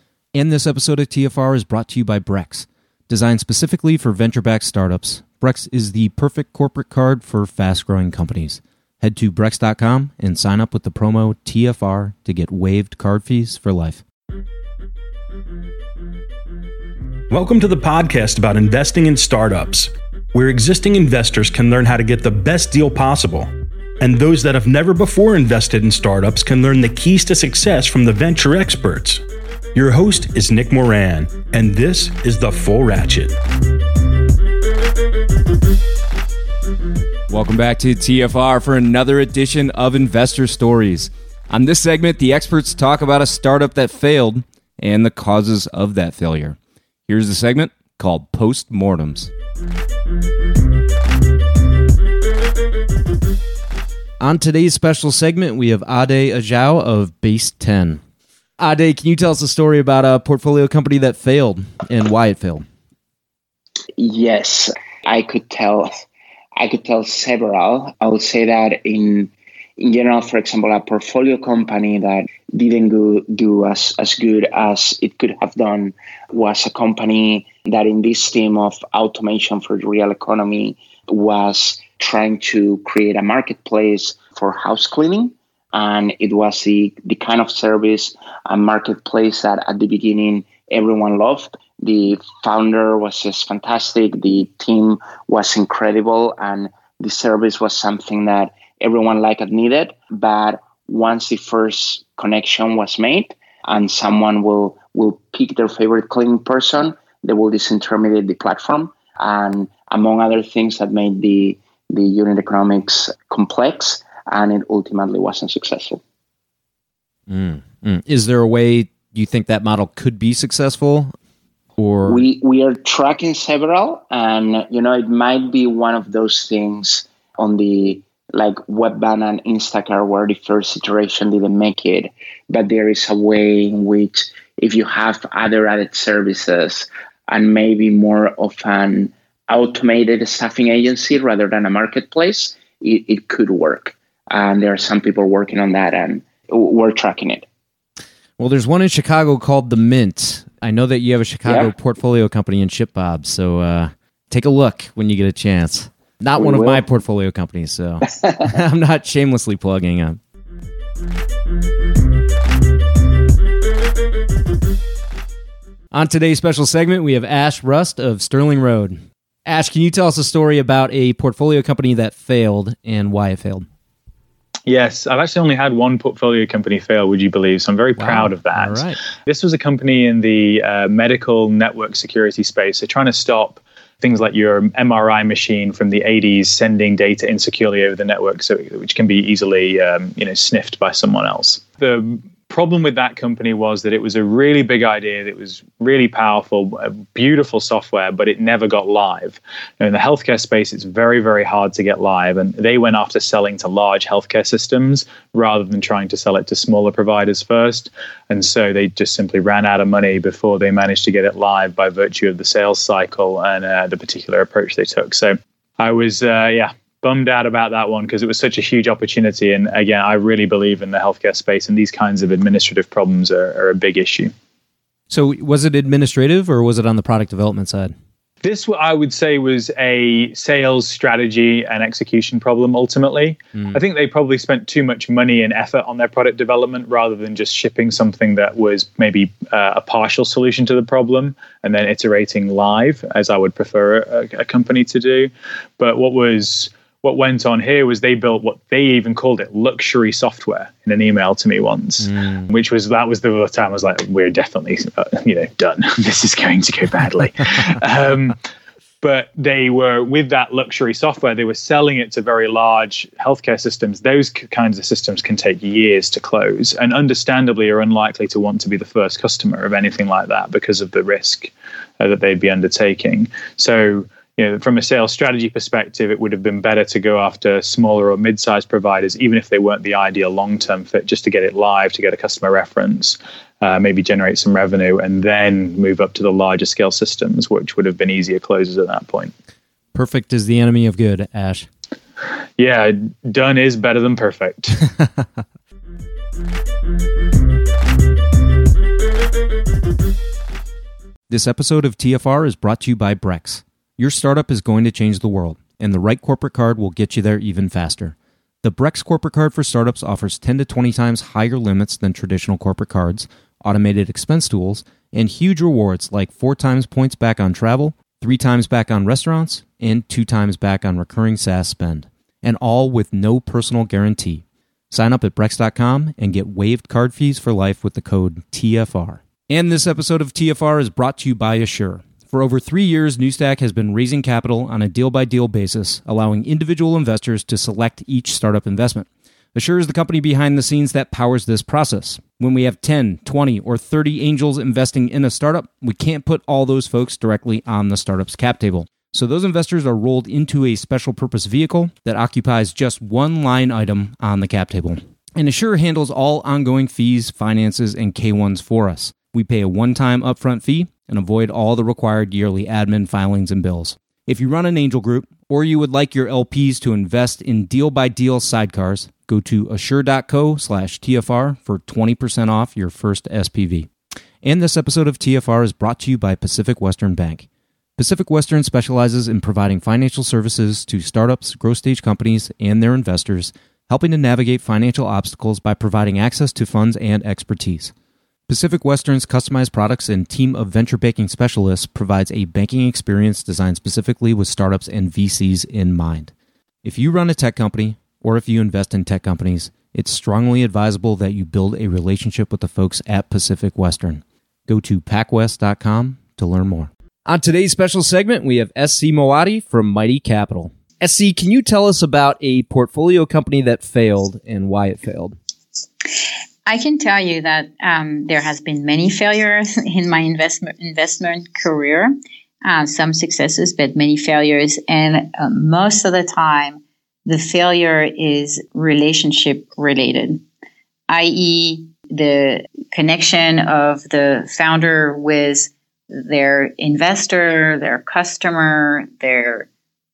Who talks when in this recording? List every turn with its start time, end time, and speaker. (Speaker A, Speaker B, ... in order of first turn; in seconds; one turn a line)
Speaker A: 0.3-14.0
Speaker B: 17.3-23.5
Speaker B: 24.0-29.2
Speaker B: 29.7-33.3
Speaker A: 37.3-49.3
Speaker A: 54.2-58.0
Speaker A: 58.6-62.6
Speaker C: 64.0-65.9
Speaker C: 66.6-116.0
Speaker A: 117.3-121.1
Speaker A: 121.8-122.2
Speaker C: 122.0-147.4
Speaker A: 148.4-160.2
Speaker C: 151.4-151.7
Speaker C: 156.4-156.8
Speaker A: 165.9-173.7
Speaker D: 174.7-224.3
Speaker A: 178.0-179.0
Speaker A: 225.1-227.9
Speaker D: 228.4-258.4
Speaker A: 252.1-252.5
Speaker D: 259.0-289.3
Speaker A: 289.9-291.7
Speaker D: 292.6-294.8
Speaker A: 301.3-373.9
Speaker A: 374.4-387.9
Speaker A: 388.5-396.3
Speaker A: 396.8-415.4
Speaker E: 416.6-422.1
Speaker E: 422.6-430.4
Speaker E: 431.1-439.7